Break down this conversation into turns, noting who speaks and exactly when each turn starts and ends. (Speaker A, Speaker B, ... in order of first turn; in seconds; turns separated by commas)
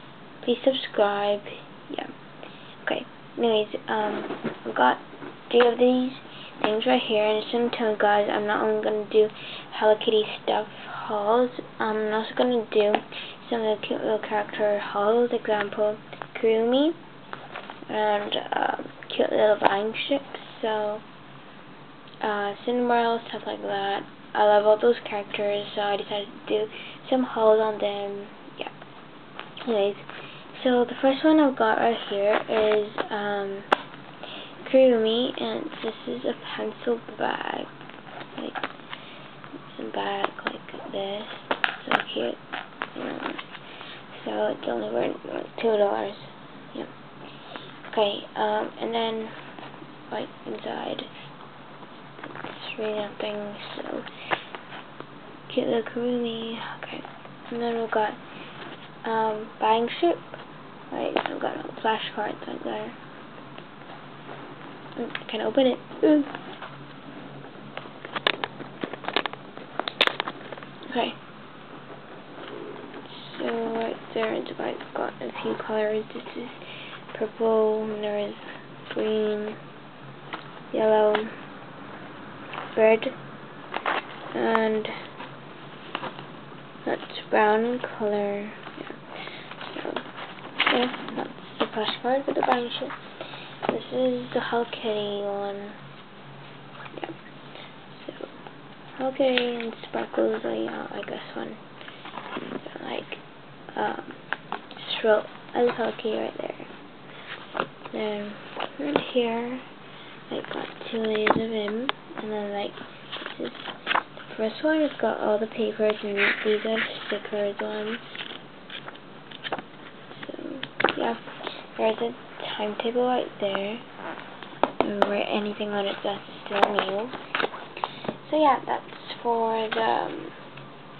Speaker A: 0.4-2.1, Speaker A: 2.8-17.0, Speaker A: 17.9-21.0, Speaker A: 22.2-28.7, Speaker A: 29.6-33.7, Speaker A: 34.6-37.7, Speaker A: 38.4-38.7, Speaker A: 39.7-42.4, Speaker A: 42.9-43.4, Speaker A: 44.1-46.9, Speaker A: 47.9-49.4, Speaker A: 50.1-51.1, Speaker A: 52.2-54.1, Speaker A: 55.5-58.2, Speaker A: 59.0-60.4, Speaker A: 60.9-63.0, Speaker A: 65.0-66.3, Speaker A: 70.9-71.2, Speaker A: 73.0-79.6, Speaker A: 80.7-81.3, Speaker A: 82.7-83.2, Speaker A: 84.3-85.0, Speaker A: 86.8-90.1, Speaker A: 90.7-93.0, Speaker A: 93.7-95.8, Speaker A: 96.9-97.2, Speaker A: 97.9-98.3, Speaker A: 99.0-101.6, Speaker A: 102.5-106.7, Speaker A: 107.9-109.7, Speaker A: 110.3-118.0, Speaker A: 120.1-123.8, Speaker A: 124.8-127.2, Speaker A: 128.2-130.4